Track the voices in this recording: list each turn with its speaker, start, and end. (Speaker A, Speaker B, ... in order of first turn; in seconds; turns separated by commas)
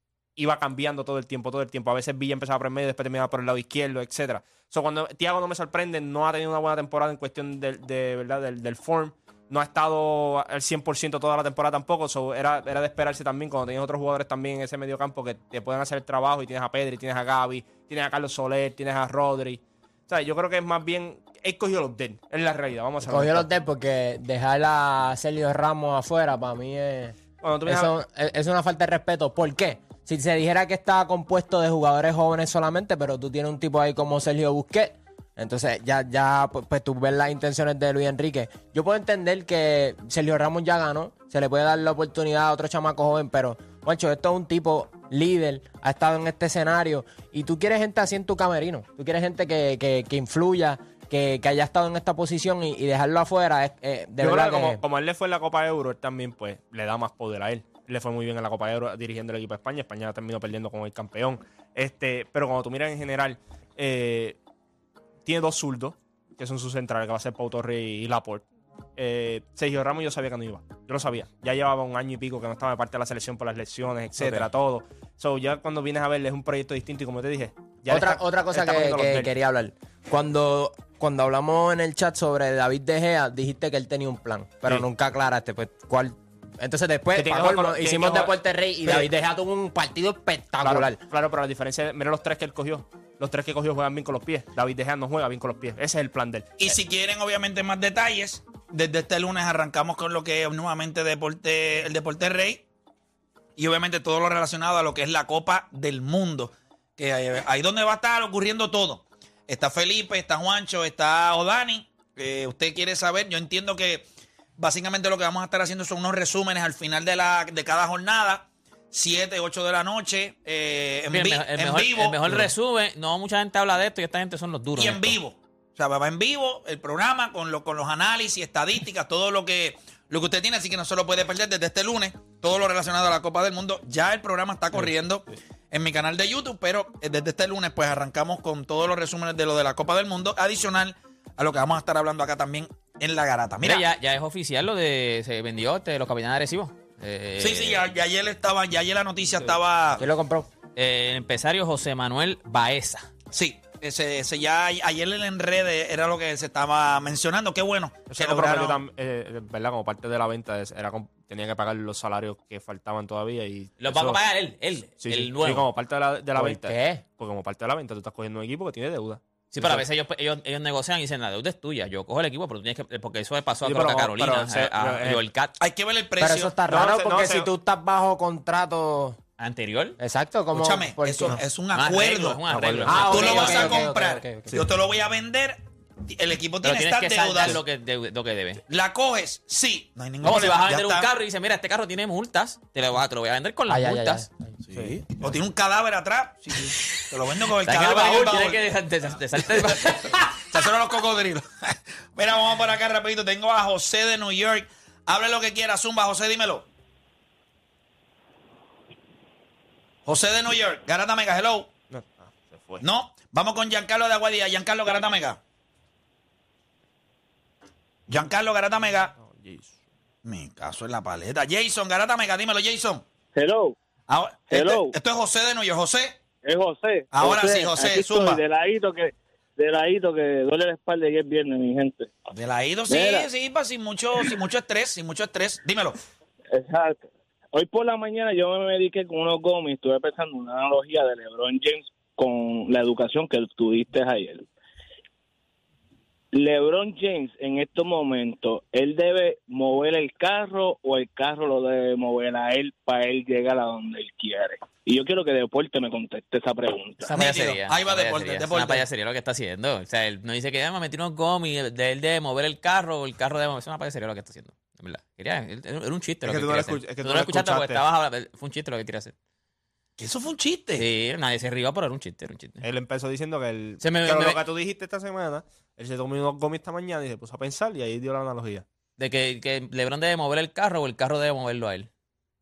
Speaker A: 0.4-23.5, Speaker B: 23.1-54.8, Speaker A: 27.4-27.9, Speaker A: 54.2-64.4, Speaker A: 65.2-68.5, Speaker A: 69.0-79.3, Speaker B: 77.9-91.0, Speaker A: 87.1-89.1, Speaker A: 90.6-96.7, Speaker C: 96.6-102.7, Speaker C: 103.6-122.5, Speaker D: 121.1-125.2, Speaker C: 124.8-143.9, Speaker D: 143.6-147.8, Speaker C: 147.4-150.0, Speaker B: 150.0-150.5, Speaker D: 150.8-153.1, Speaker C: 153.3-158.8, Speaker A: 158.1-164.2, Speaker D: 163.8-165.7, Speaker A: 165.0-169.9, Speaker B: 166.4-167.0, Speaker D: 169.5-175.5, Speaker A: 173.6-175.2, Speaker C: 175.6-176.5, Speaker B: 176.2-179.2, Speaker A: 176.7-177.5, Speaker D: 179.4-180.0, Speaker B: 180.0-181.4, Speaker C: 180.5-187.6, Speaker D: 181.7-183.8, Speaker A: 182.5-183.1, Speaker B: 182.9-184.6, Speaker D: 186.6-188.6, Speaker C: 188.7-191.1, Speaker D: 190.2-194.3, Speaker B: 193.7-194.6, Speaker C: 194.7-198.6, Speaker D: 196.8-200.4, Speaker C: 199.4-206.7, Speaker C: 210.1-211.7, Speaker A: 211.9-212.8, Speaker C: 212.8-215.4, Speaker C: 218.1-219.1, Speaker A: 219.2-219.8, Speaker C: 220.2-223.1, Speaker E: 223.3-223.8, Speaker C: 224.1-226.2, Speaker E: 224.5-225.0, Speaker E: 226.4-232.1, Speaker C: 227.1-228.4, Speaker C: 232.3-236.0, Speaker E: 232.9-233.3, Speaker E: 236.5-244.5, Speaker E: 246.3-257.1, Speaker D: 257.1-269.1, Speaker C: 257.1-258.9, Speaker A: 266.2-267.8, Speaker C: 270.0-270.9, Speaker D: 270.8-272.6, Speaker A: 272.6-278.6, Speaker D: 273.8-274.4, Speaker D: 279.0-281.9